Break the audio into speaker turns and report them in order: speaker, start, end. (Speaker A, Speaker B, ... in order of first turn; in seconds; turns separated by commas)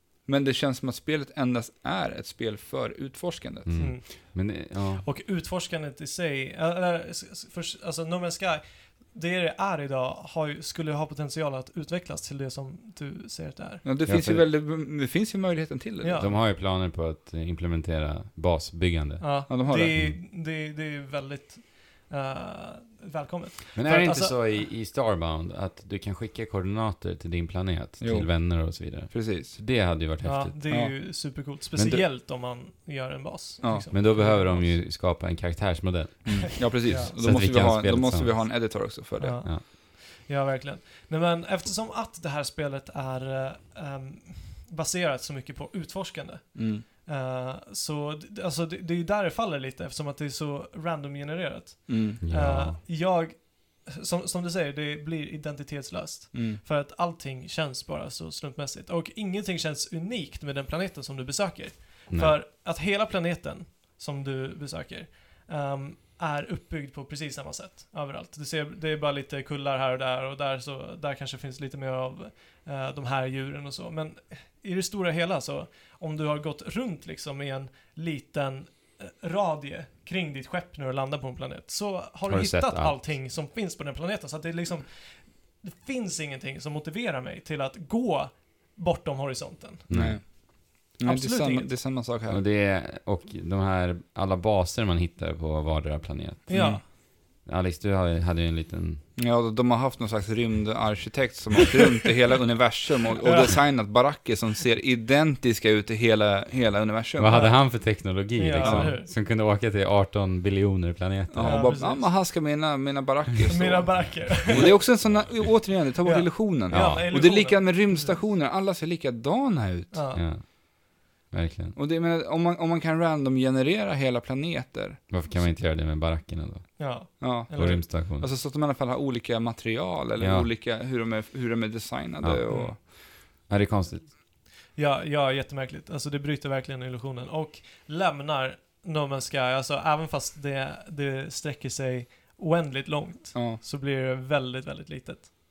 Speaker A: 0.2-3.9, Speaker B: 3.7-5.1, Speaker C: 3.8-13.8, Speaker A: 13.8-16.2, Speaker B: 14.1-14.4, Speaker C: 16.0-16.3, Speaker B: 16.2-20.2, Speaker C: 19.2-24.6, Speaker A: 19.5-20.0, Speaker B: 23.8-30.6, Speaker A: 28.0-29.6, Speaker C: 30.2-34.8, Speaker A: 30.7-31.0, Speaker A: 31.7-32.0, Speaker A: 33.6-33.9, Speaker B: 33.9-38.8, Speaker A: 36.2-39.4, Speaker C: 36.4-37.2, Speaker C: 39.2-90.5, Speaker A: 46.5-46.9, Speaker A: 51.9-52.2, Speaker B: 52.2-52.8, Speaker A: 56.3-56.6, Speaker B: 62.1-62.4, Speaker B: 82.3-83.2, Speaker B: 89.9-90.2, Speaker A: 89.9-92.4, Speaker C: 91.0-91.8, Speaker B: 92.3-99.0, Speaker C: 96.5-96.8, Speaker A: 96.5-96.8, Speaker A: 99.2-107.4, Speaker C: 103.2-103.6, Speaker B: 107.2-111.8, Speaker C: 107.3-109.1, Speaker A: 108.6-108.9, Speaker A: 111.3-120.0, Speaker C: 111.4-112.2, Speaker C: 113.5-115.2, Speaker B: 114.0-115.5, Speaker C: 116.0-118.2, Speaker B: 116.7-117.1, Speaker C: 119.9-120.2, Speaker B: 120.1-121.8, Speaker A: 121.8-125.0, Speaker B: 125.1-128.3, Speaker C: 126.8-127.8, Speaker A: 127.2-132.8, Speaker B: 130.2-130.5, Speaker B: 132.2-134.1, Speaker C: 132.5-132.7, Speaker C: 134.8-145.3, Speaker A: 143.3-143.6